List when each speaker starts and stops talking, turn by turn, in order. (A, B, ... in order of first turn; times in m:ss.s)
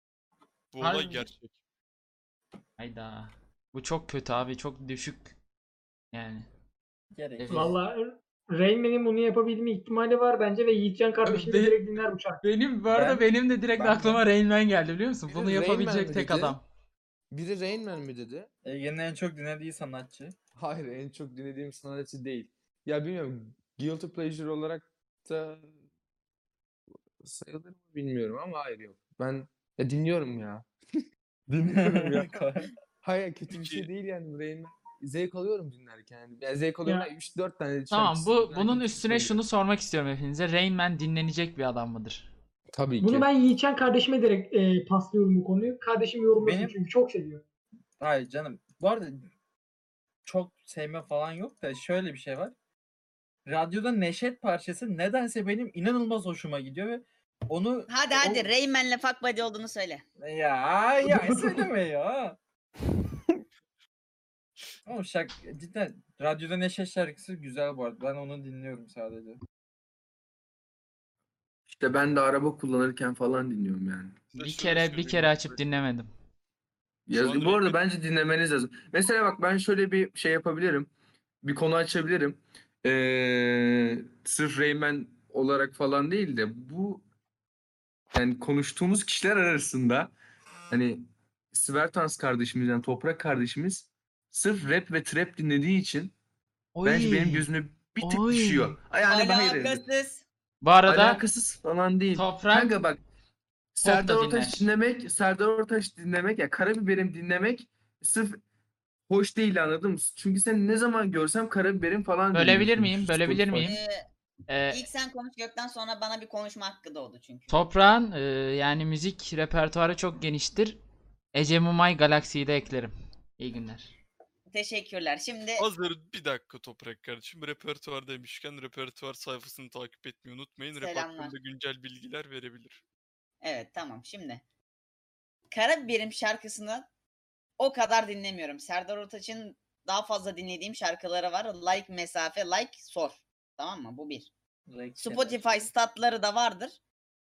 0:00.7-0:01.6 A
0:00.8-0:01.3 B
0:02.8-0:05.3 B
0:06.1-0:06.5 B
0:07.1-0:07.8 C
0:07.4-0:07.8 B
0:07.5-0:12.4 D
0:11.2-0:11.8 B
0:12.4-0:16.6 B
0:12.9-0:13.2 C
0:13.8-0:14.2 C
0:15.3-0:16.6 E
0:17.3-0:18.5 E
0:18.6-0:20.3 C
0:20.6-0:25.8 E
0:27.2-0:30.7 E
0:31.5-0:32.4 E
0:31.6-0:32.7 C
0:33.0-0:39.4 E
0:33.5-0:33.9 A
0:36.8-0:37.1 D
0:37.9-0:42.3 B
0:42.7-0:43.3 E
0:43.0-0:47.4 D
0:46.4-0:46.8 C
0:48.0-0:49.3 C
0:50.2-0:52.5 C
0:53.5-0:58.5 C
0:57.9-1:00.0 F
1:00.2-1:02.4 C
1:04.9-1:09.4 C
1:11.7-1:14.2 E
1:14.3-1:15.6 A
1:14.4-1:16.1 B
1:17.1-1:20.9 E
1:17.1-1:17.8 A
1:21.4-1:27.0 E
1:28.1-1:30.1 E
1:30.7-1:36.1 E
1:36.8-1:37.5 B
1:36.8-1:39.8 E
1:38.0-1:38.8 B
1:39.0-1:40.2 F
1:40.6-1:41.2 B
1:40.9-1:43.0 E
1:42.1-1:42.8 B
1:43.7-1:48.4 E
1:43.8-1:44.7 B
1:49.1-1:53.7 E
1:52.3-1:53.8 B
1:53.6-1:54.0 F
1:54.5-1:54.8 B
1:54.7-1:57.6 F
1:57.5-2:00.8 B
2:01.3-2:04.0 B
2:04.5-2:05.7 F
2:05.6-2:12.8 A
2:10.8-2:11.3 F
2:13.4-2:14.4 F
2:15.5-2:16.9 F
2:17.6-2:24.3 F
2:24.7-2:25.7 C
2:25.0-2:26.8 F